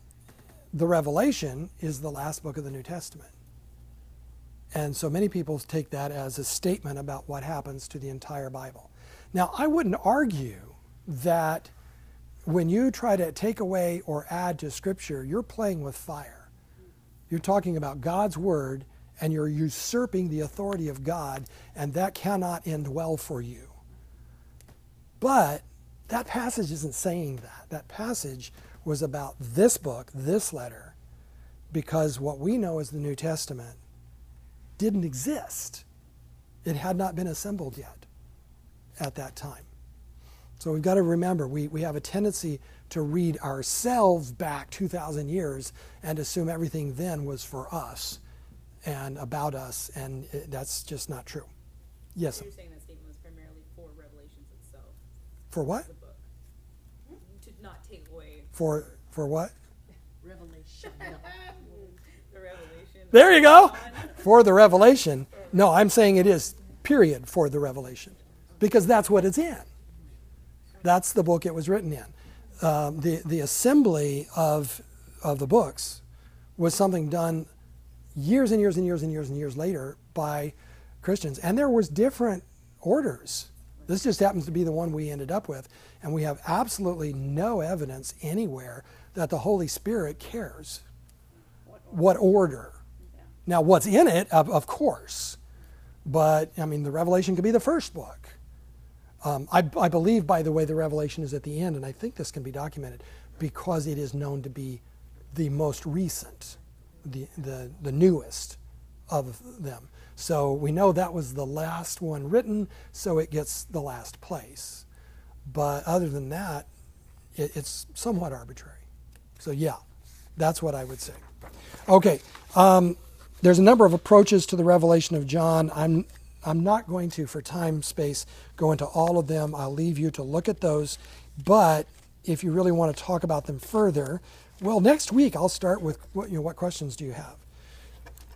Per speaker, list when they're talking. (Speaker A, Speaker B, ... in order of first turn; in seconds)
Speaker A: 0.7-3.3, 4.7-11.7, 12.4-16.5, 17.3-23.7, 25.2-30.9, 31.7-33.8, 34.8-35.8, 36.6-38.1, 39.0-39.7, 40.6-48.2, 48.8-51.5, 52.1-52.5, 55.5-55.9, 58.5-59.5, 63.1-69.7, 70.8-76.0, 76.6-77.5, 78.2-90.8, 91.9-92.8, 93.5-95.4, 96.0-98.4, 99.2-104.8, 105.3-108.6, 109.1-114.8, 115.5-116.7, 117.3-118.8, 119.4-119.8, 120.4-121.2, 121.9-137.4
Speaker B: 52.2-55.0, 55.6-56.3, 57.2-58.7, 61.0-64.3
Speaker C: 60.2-61.9, 91.7-92.2